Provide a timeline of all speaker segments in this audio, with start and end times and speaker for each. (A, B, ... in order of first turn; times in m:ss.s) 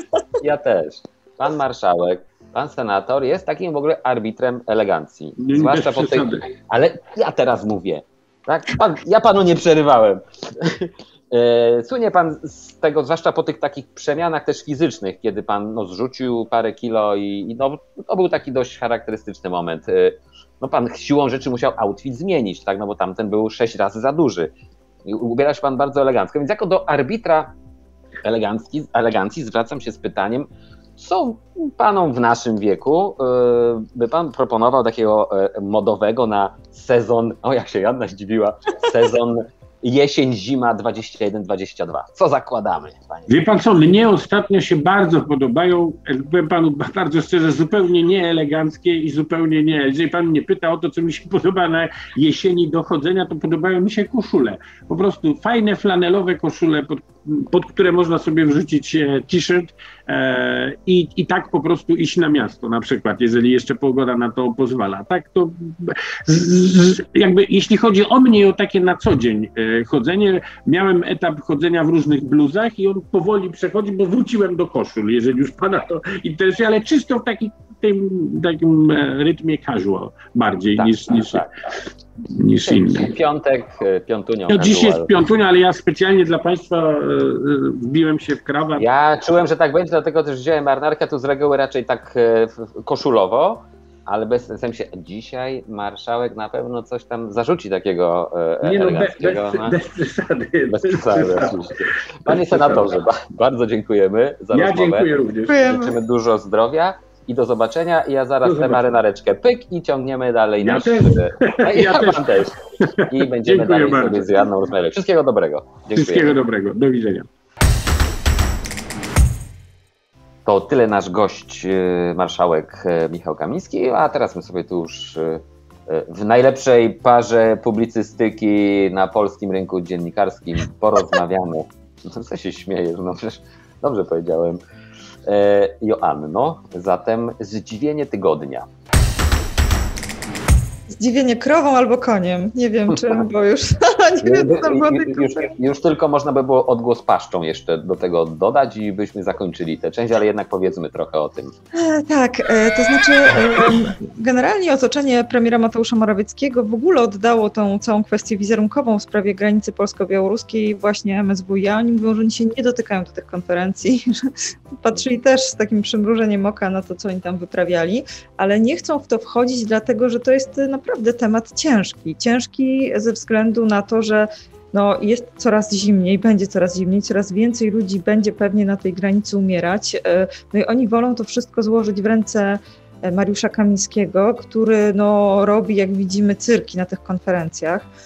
0:00.4-0:24.5 A
0:05.4-0:06.5 B
0:25.1-0:27.5 A
0:28.2-0:43.4 A
0:43.3-1:21.4 B
1:20.8-1:21.5 A
1:22.2-1:23.1 B
1:22.6-1:25.2 A
1:24.5-1:28.9 B
1:28.8-1:39.8 A
1:38.6-1:42.8 B
1:40.7-1:52.5 A
1:44.5-1:45.7 B
1:45.5-1:45.9 C
1:48.4-1:48.8 B
1:50.6-1:54.4 B
1:53.0-1:56.3 A
1:55.9-1:57.3 B
2:00.4-2:14.6 A
2:15.2-2:18.7 A
2:20.9-2:25.5 C
2:24.2-2:31.5 A
2:31.7-3:07.9 C